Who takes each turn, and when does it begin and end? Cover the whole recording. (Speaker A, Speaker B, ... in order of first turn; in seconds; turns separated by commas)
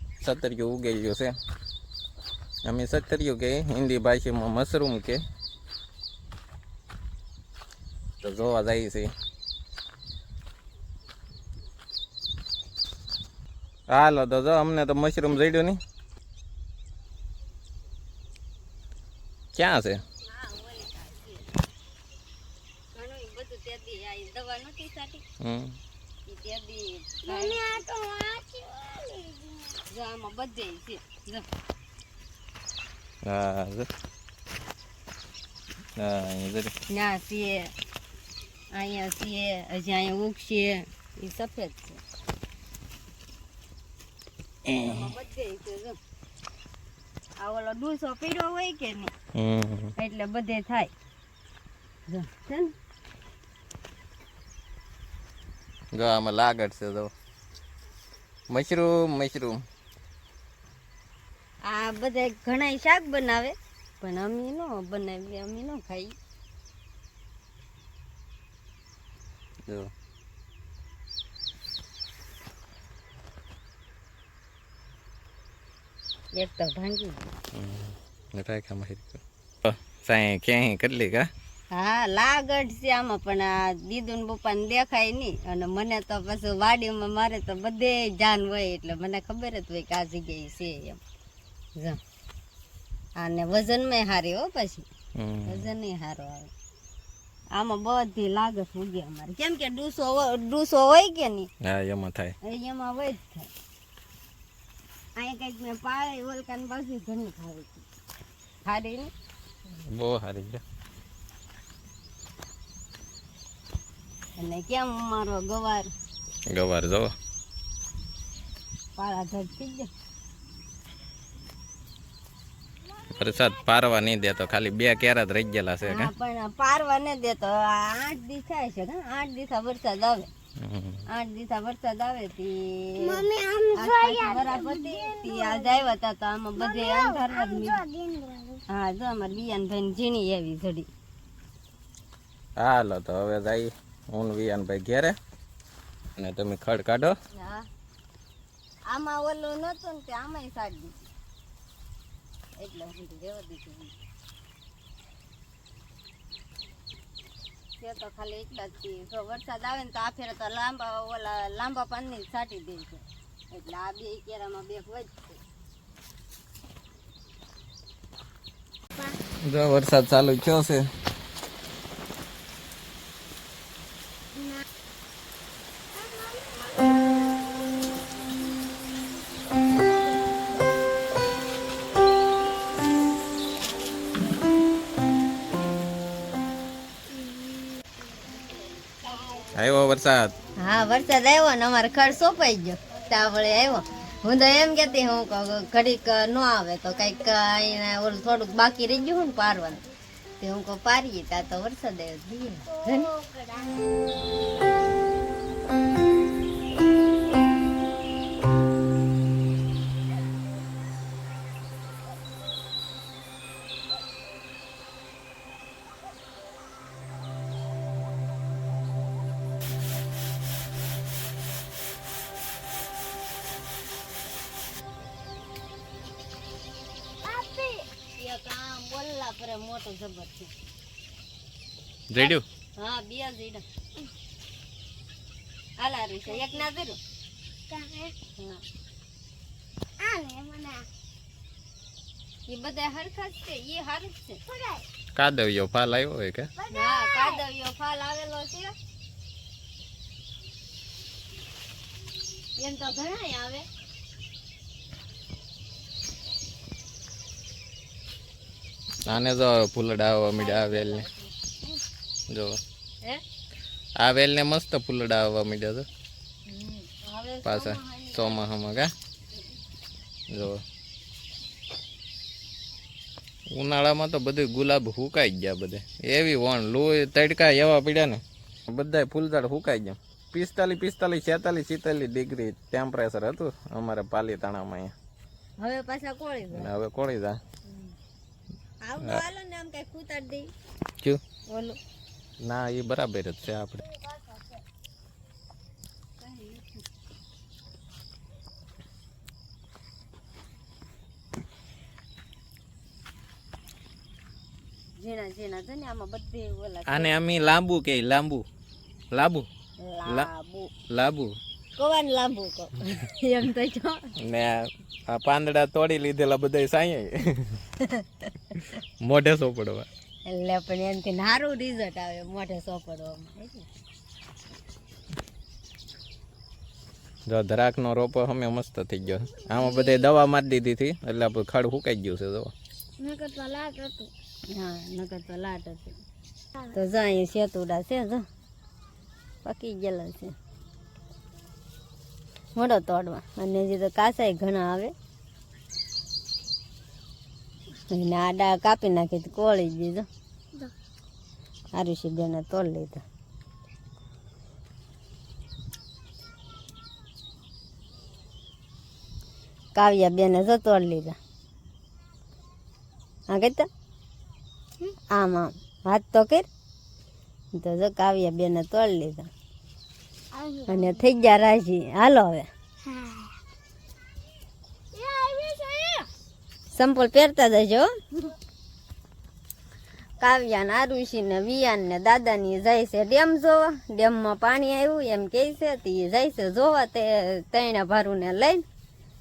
Speaker A: 0.2-1.3, Speaker A: 2.6-5.2, Speaker A: 8.2-9.1, Speaker A: 13.9-15.8, Speaker A: 19.5-20.0, Speaker B: 20.2-21.4, Speaker B: 22.9-25.2, Speaker A: 25.4-25.8, Speaker B: 26.2-27.6, Speaker C: 27.2-29.8, Speaker B: 29.9-31.4, Speaker A: 33.2-33.9, Speaker A: 36.0-36.7, Speaker B: 36.9-37.7, Speaker B: 38.7-42.0, Speaker B: 44.7-46.0, Speaker B: 47.4-49.1, Speaker A: 49.3-49.9, Speaker B: 50.0-50.9, Speaker B: 52.1-52.7, Speaker A: 55.9-57.1, Speaker A: 58.5-59.6, Speaker B: 61.6-66.1, Speaker A: 69.7-69.9, Speaker B: 76.3-77.2, Speaker A: 77.5-81.3, Speaker B: 81.7-91.0, Speaker B: 93.2-94.8, Speaker A: 95.2-95.7, Speaker B: 95.5-96.5, Speaker B: 97.5-101.5, Speaker A: 101.6-102.3, Speaker B: 102.4-103.5, Speaker B: 105.2-107.8, Speaker B: 108.6-109.1, Speaker A: 109.9-110.6, Speaker B: 114.4-115.9, Speaker A: 116.5-117.1, Speaker B: 119.0-119.9, Speaker A: 123.1-126.1, Speaker B: 125.8-130.3, Speaker A: 130.6-131.0, Speaker B: 131.1-133.2, Speaker C: 133.0-135.8, Speaker B: 133.7-137.8, Speaker C: 136.6-138.6, Speaker B: 138.7-140.9, Speaker A: 142.6-145.2, Speaker A: 146.2-147.1, Speaker B: 147.3-147.6, Speaker B: 148.9-150.9, Speaker B: 152.6-153.9, Speaker B: 157.8-165.4, Speaker A: 169.4-170.8, Speaker C: 176.0-176.5, Speaker A: 189.5-190.3, Speaker B: 190.6-199.8, Speaker B: 200.4-203.1, Speaker C: 202.7-203.8, Speaker C: 227.2-227.8, Speaker B: 228.2-230.5, Speaker A: 232.1-232.4, Speaker B: 232.8-233.6, Speaker B: 235.8-237.0, Speaker C: 236.2-236.6, Speaker C: 237.7-238.1, Speaker B: 238.4-238.6, Speaker C: 240.0-240.8, Speaker B: 242.5-244.4, Speaker C: 244.4-244.8, Speaker A: 245.2-246.5, Speaker C: 246.6-247.4, Speaker B: 246.7-248.7, Speaker B: 252.6-253.7, Speaker A: 259.1-261.1, Speaker B: 260.4-261.2, Speaker A: 262.3-262.6, Speaker A: 264.0-265.9, Speaker B: 266.5-268.4, Speaker A: 267.4-268.9, Speaker A: 270.3-270.6, Speaker A: 273.5-284.9, Speaker B: 285.6-286.7, Speaker A: 286.5-287.4, Speaker B: 288.8-290.5, Speaker B: 291.5-291.8, Speaker A: 292.4-293.8, Speaker B: 296.2-296.8, Speaker B: 305.0-307.1, Speaker A: 306.9-308.4, Speaker A: 309.1-309.5, Speaker B: 309.8-310.7, Speaker A: 310.9-311.4, Speaker B: 311.8-314.0, Speaker A: 314.2-317.6, Speaker A: 319.0-319.9, Speaker B: 320.3-323.6, Speaker A: 327.3-332.5, Speaker C: 329.6-330.0, Speaker C: 333.0-334.1, Speaker B: 334.5-336.0, Speaker B: 336.7-338.2, Speaker B: 339.4-340.3, Speaker B: 342.6-344.9, Speaker B: 347.9-350.1, Speaker B: 351.7-353.0, Speaker B: 359.7-361.1, Speaker B: 363.3-363.6, Speaker B: 365.1-366.5, Speaker B: 367.5-369.3, Speaker C: 370.3-371.0, Speaker B: 370.7-372.5, Speaker C: 372.8-373.3, Speaker C: 374.9-376.1, Speaker B: 376.7-377.9, Speaker B: 380.2-388.6